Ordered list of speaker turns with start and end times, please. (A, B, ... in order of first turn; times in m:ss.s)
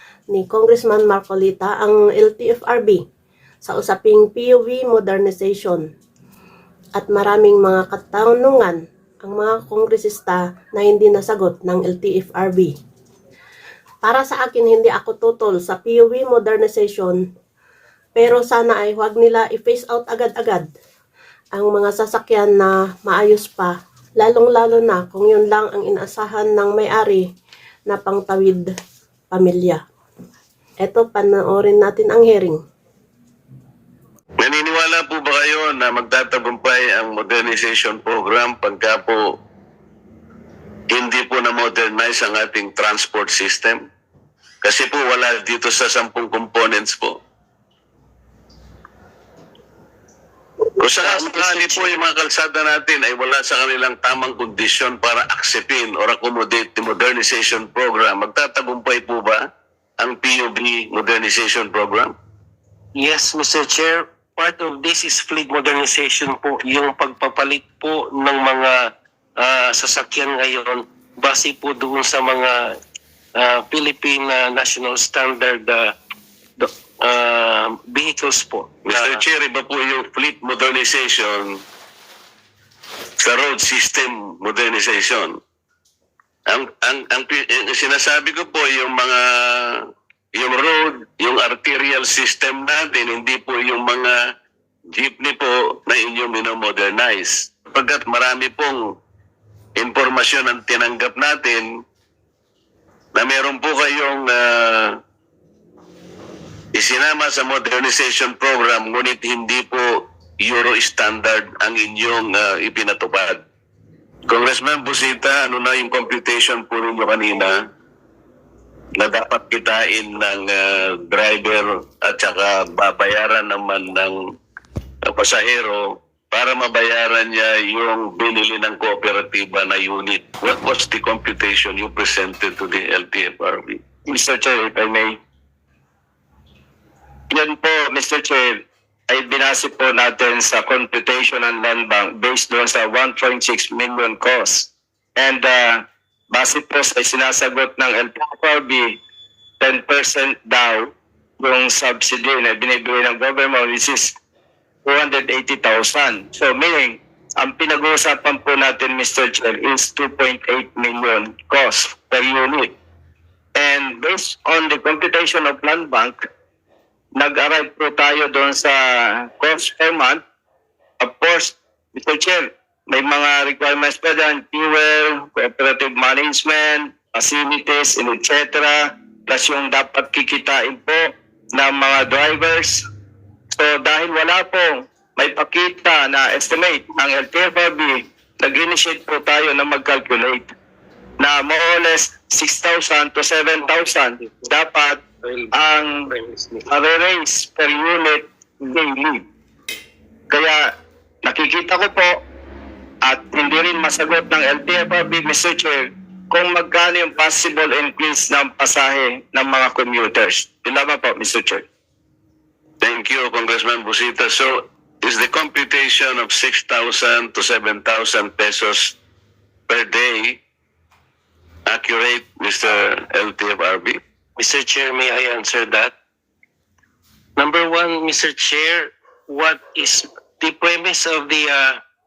0:00.3-0:03.0 A
0:03.6-0:05.9 A
0:07.0-0:12.8 A
0:14.0-0:17.2 A
0:18.2-0:20.7 A
0:21.5-0:27.3 A
0:27.9-0:28.7 A
0:29.3-0:29.8 A
0:30.8-0:32.6 A
0:34.4-0:39.3 B
0:40.9-0:43.8 B
0:44.6-0:47.2 B
0:50.8-0:59.4 B
0:51.0-0:52.0 C
1:00.0-1:02.1 B
1:03.0-1:12.8 C
1:13.4-1:16.0 C
1:16.6-1:19.2 C
1:18.9-1:21.6 B
1:23.2-1:25.4 B
1:26.5-1:34.2 B
1:34.9-1:38.8 B
1:39.8-1:41.7 B
1:43.2-1:45.0 B
1:46.8-1:53.4 B
1:54.3-1:57.6 B
1:59.0-2:04.2 B
2:05.1-2:13.8 B
2:14.1-2:15.2 D
2:17.3-2:29.0 D
2:29.6-2:34.2 D
2:34.8-2:42.8 D
2:43.6-2:46.3 D
2:47.2-2:50.2 D
2:51.0-3:02.9 D
3:03.5-3:10.5 D
3:11.2-3:16.1 D
3:14.2-3:14.5 C
3:15.2-3:15.5 C
3:16.1-3:16.7 C
3:16.7-3:19.2 D
3:20.3-3:20.7 D
3:21.2-3:22.2 D
3:23.0-3:31.6 D
3:32.8-3:39.0 B
3:39.7-3:40.4 B
3:41.7-3:44.0 B
3:44.4-3:45.9 C
3:47.4-3:51.8 C